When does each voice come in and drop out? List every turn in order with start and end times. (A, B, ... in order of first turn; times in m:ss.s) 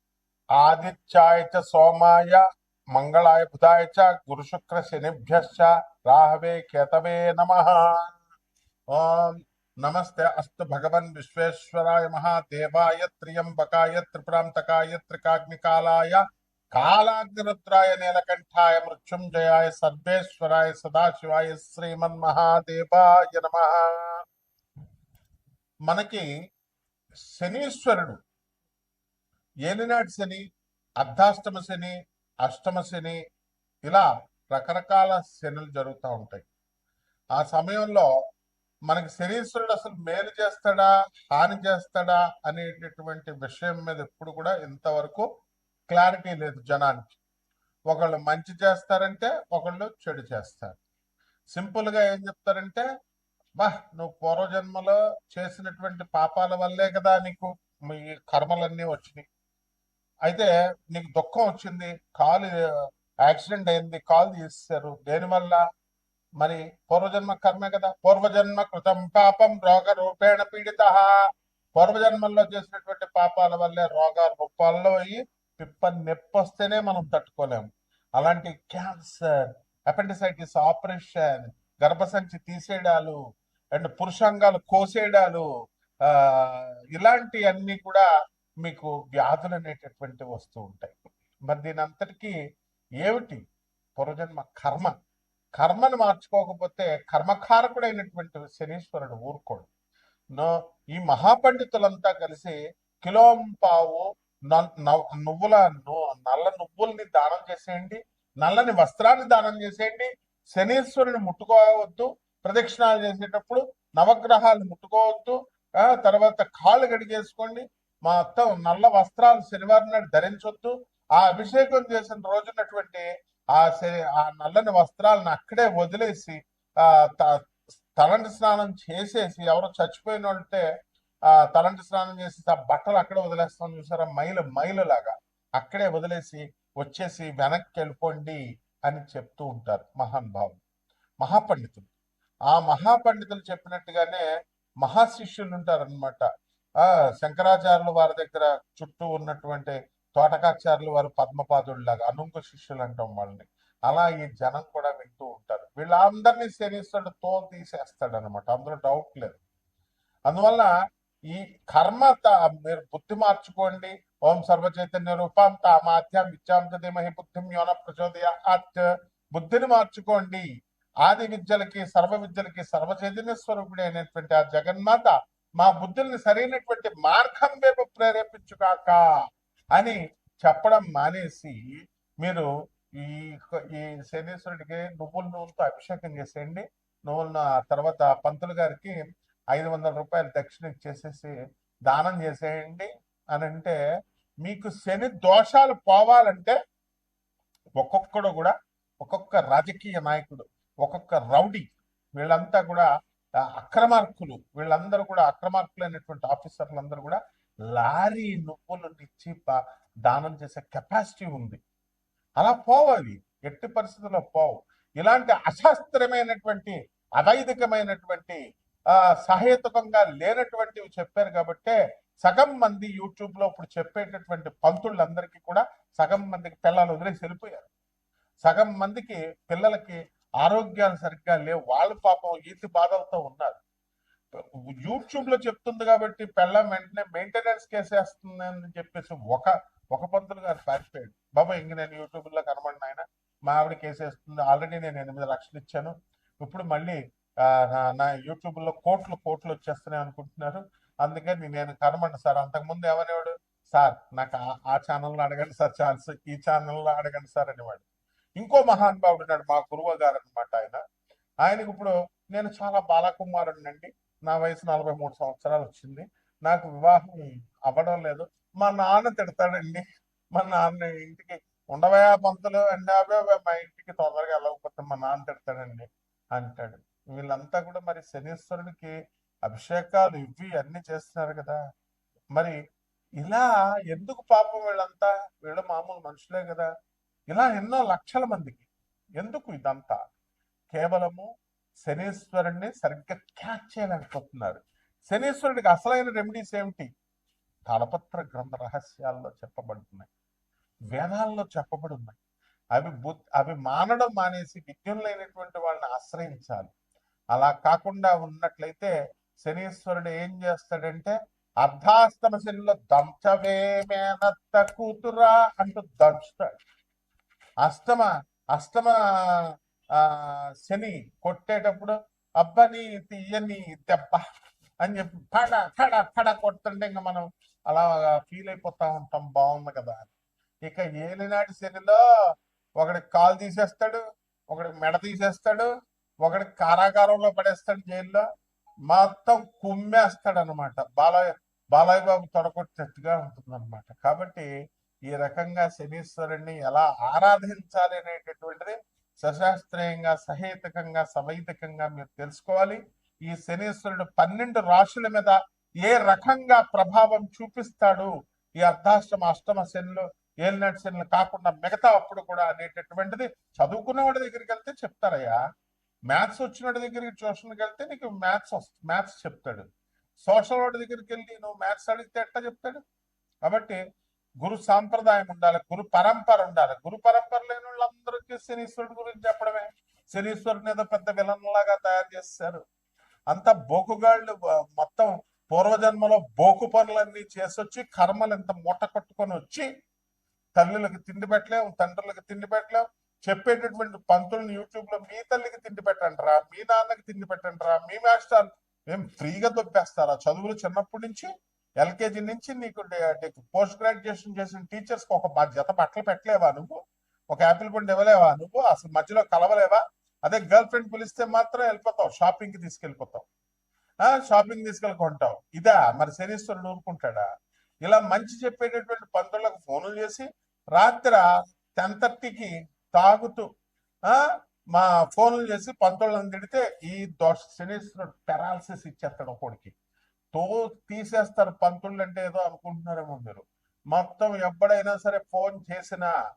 0:00.6-0:02.4 A
0:02.9-0:08.1 A
0:08.9-0:16.2 A
0:16.7-0:24.1 A
0:25.9-0:26.2 A
0:27.3-0:28.2 A
0:29.7-0:30.4 A
0:31.0-0:31.9 A
0:32.4-0:33.2 A
0:33.8-0:36.4 A
0:37.4-0:38.0 A
0:38.9-0:45.2 A
0:45.9-0:47.2 A
0:47.9-0:50.8 A
0:51.5-0:52.8 A
0:53.6-0:59.2 A
1:00.2-1:05.6 A
1:06.4-1:11.1 A
1:11.8-1:17.7 A
1:18.2-1:23.2 A
1:23.8-1:25.4 A
1:26.1-1:28.0 A
1:28.6-1:30.9 A
1:31.5-1:32.3 A
1:33.0-1:33.4 A
1:34.0-1:34.9 A
1:35.6-1:39.7 A
1:40.3-2:07.4 A
2:08.0-2:10.6 A
2:11.3-2:20.6 A
2:21.2-2:21.9 A
2:22.5-2:24.2 A
2:24.8-2:26.2 A
2:26.8-2:39.4 A
2:40.3-2:40.7 A
2:41.3-2:50.4 A
2:51.0-2:59.0 A
2:59.7-3:01.7 A
3:02.2-3:02.5 A
3:03.0-3:09.0 A
3:09.5-3:11.3 A
3:11.9-3:13.7 A
3:14.4-3:16.6 A
3:17.8-3:22.9 A
3:23.6-3:27.2 A
3:27.7-3:31.6 A
3:32.4-3:38.4 A
3:39.2-3:47.7 A
3:48.4-3:53.6 A
3:54.3-4:17.8 A
4:18.4-4:20.8 A
4:21.4-4:38.9 A
4:39.4-4:41.6 A
4:43.2-4:46.7 A
4:47.3-4:48.7 A
4:49.2-4:50.0 A
4:50.7-4:51.3 A
4:51.8-4:56.9 A
4:57.7-5:00.1 A
5:00.9-5:02.2 A
5:02.7-5:06.7 A
5:07.3-5:16.5 A
5:17.6-5:19.4 A
5:20.0-5:24.2 A
5:24.8-5:30.1 A
5:30.6-5:32.0 A
5:32.8-5:34.0 A
5:34.5-5:35.7 A
5:36.2-5:38.2 A
5:38.9-5:44.5 A
5:45.1-5:58.1 A
5:58.6-6:05.4 A
6:06.1-6:09.7 A
6:10.2-6:12.8 A
6:13.4-6:13.8 A
6:14.4-6:22.6 A
6:23.3-6:29.7 A
6:30.6-6:41.3 A
6:41.8-6:46.8 A
6:47.3-6:53.2 A
6:54.0-6:57.3 A
6:57.8-7:01.2 A
7:01.8-7:03.4 A
7:04.1-7:09.7 A
7:10.3-7:16.1 A